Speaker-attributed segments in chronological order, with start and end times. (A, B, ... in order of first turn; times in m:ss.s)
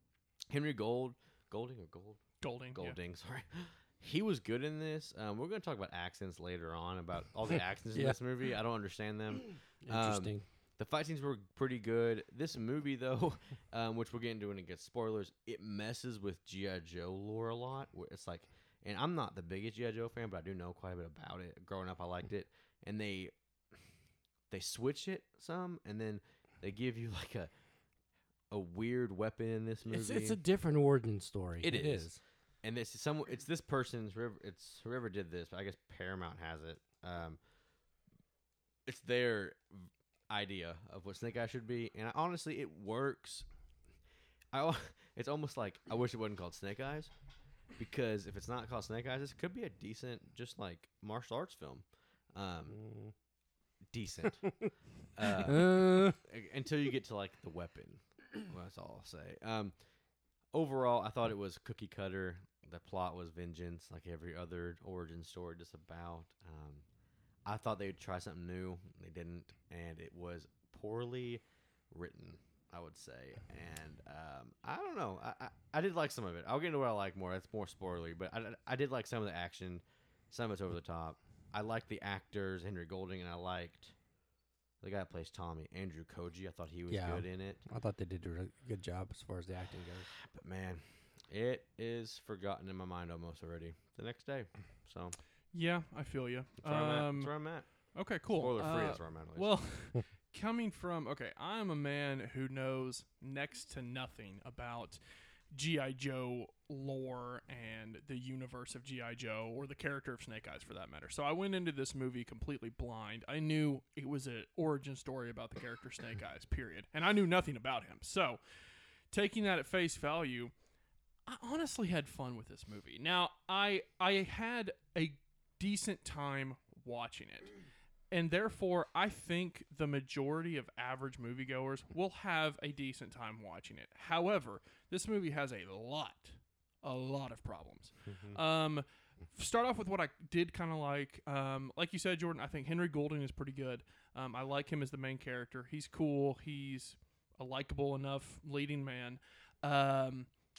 0:00.5-0:23.3 A
0:02.4-0:02.9 B
0:09.8-0:10.4 C
0:24.5-0:27.5 A
0:28.5-0:30.4 A
0:29.9-0:32.2 C
0:31.6-0:32.1 A
0:32.6-0:37.4 A
0:38.8-0:43.4 A
0:44.5-0:47.1 A
0:47.8-0:52.8 A
0:52.8-0:53.1 C
0:53.9-0:54.5 A
0:55.1-0:59.7 A
0:55.3-0:56.2 C
1:00.5-1:06.8 A
1:07.4-1:23.9 A
1:24.8-1:27.6 A
1:26.9-1:30.1 C
1:30.1-1:35.2 A
1:35.5-1:37.3 B
1:36.6-1:37.7 A
1:37.9-1:45.0 B
1:38.3-1:39.5 A
1:45.5-1:58.4 B
1:59.1-2:00.5 B
2:01.3-2:07.5 B
2:08.1-2:30.3 B
2:18.1-2:18.4 A